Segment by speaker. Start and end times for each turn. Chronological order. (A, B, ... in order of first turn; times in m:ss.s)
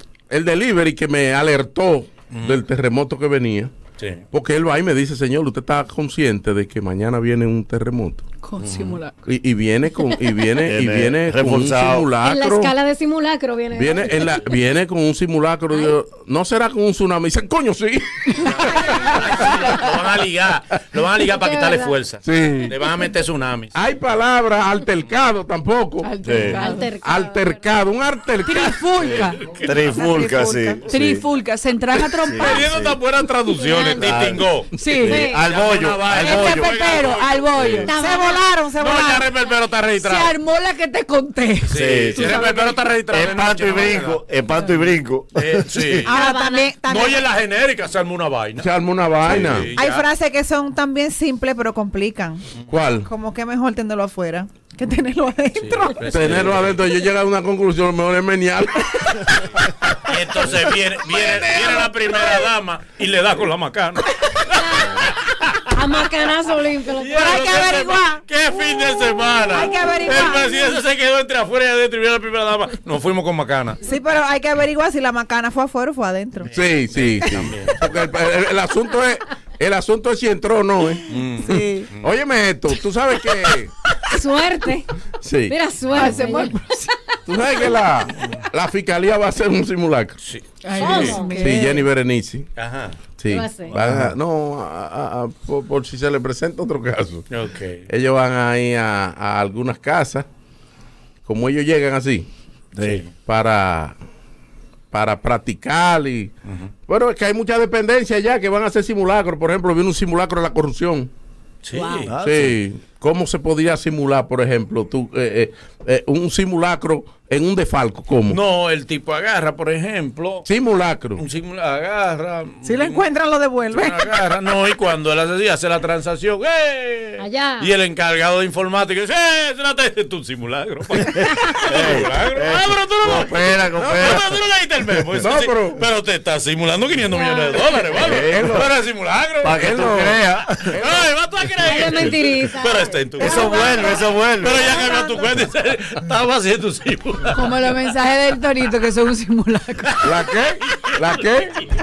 0:00.3-0:03.7 A
0:02.3-0:02.6 B
0:04.3-0:08.2 A
0:08.4-0:09.2 C
0:08.6-0:09.0 B
0:09.3-0:12.7 A
0:10.6-0:12.1 D
0:12.2-0:14.5 E
0:13.7-0:19.3 A
0:18.4-0:23.8 B
0:18.8-0:19.1 E
0:21.2-0:21.9 E
0:22.2-0:22.9 A
0:23.7-0:26.1 A
0:26.0-0:26.9 C
0:26.2-0:26.6 D
0:26.5-0:27.6 E
0:27.0-0:29.1 A
0:28.4-0:29.6 C
0:29.2-0:29.7 B
0:29.6-0:31.2 D
0:30.0-0:30.8 F
0:30.9-0:32.9 C
0:32.2-0:32.9 D
0:32.4-0:37.9 B
0:33.6-0:34.0 E
0:34.0-0:36.9 D
0:34.7-0:35.3 C
0:35.0-0:35.4 E
0:36.2-0:38.0 C
0:37.9-0:38.4 E
0:37.9-0:39.4 F
0:38.8-0:40.4 B
0:40.0-0:42.8 C
0:41.7-0:44.2 B
0:41.7-0:42.5 D
0:43.1-0:46.0 D
0:45.4-0:46.2 B
0:46.0-0:47.3 F
0:46.1-0:46.7 E
0:46.8-0:48.7 B
0:48.6-0:49.7 A
0:49.2-0:50.1 B
0:49.7-0:52.4 F
0:52.7-0:53.1 A
0:53.0-0:56.0 F
0:55.6-0:56.8 B
0:56.0-1:00.1 A
1:00.0-1:05.7 B
1:01.2-1:01.6 A
1:04.5-1:05.1 E
1:05.7-1:07.9 E
1:07.0-1:13.8 B
1:07.2-1:08.2 F
1:09.5-1:10.8 F
1:13.8-1:16.5 F
1:16.4-1:17.9 B
1:16.5-1:23.7 A
1:21.1-1:22.1 B
1:21.4-1:21.9 F
1:24.1-1:24.9 E
1:25.2-1:25.6 A
1:25.5-1:26.6 E
1:25.9-1:26.9 C
1:27.3-1:30.2 A
1:30.2-1:31.2 B
1:30.6-1:31.8 C
1:30.8-1:31.4 E
1:31.3-1:31.8 F
1:31.4-1:32.5 A
1:32.6-1:33.0 B
1:33.2-1:37.2 A
1:33.3-1:33.8 E
1:33.7-1:34.1 D
1:37.3-1:37.9 B
1:37.9-1:40.3 A
1:41.3-1:42.3 A
1:42.8-1:43.0 D
1:42.8-1:43.1 B
1:43.3-1:44.0 A
1:44.9-1:46.3 A
1:46.5-1:46.7 B
1:46.9-1:51.1 A
1:51.6-1:52.1 B
1:51.7-1:52.1 C
1:52.1-1:52.5 D
1:52.2-1:58.4 A
1:58.3-2:00.5 B
2:00.4-2:01.2 A
2:01.2-2:03.0 B
2:02.6-2:04.3 F
2:03.7-2:19.8 B
2:07.2-2:07.7 E
2:11.0-2:14.3 D
2:13.8-2:14.2 A
2:15.2-2:15.8 A
2:17.1-2:17.9 E
2:18.0-2:18.6 D
2:18.0-2:18.7 A
2:19.4-2:20.8 D
2:19.5-2:21.1 A
2:20.7-2:27.8 B
2:21.6-2:23.9 E
2:23.2-2:24.7 D
2:24.6-2:25.2 E
2:27.3-2:30.0 C
2:29.8-2:31.7 B
2:30.0-2:31.6 A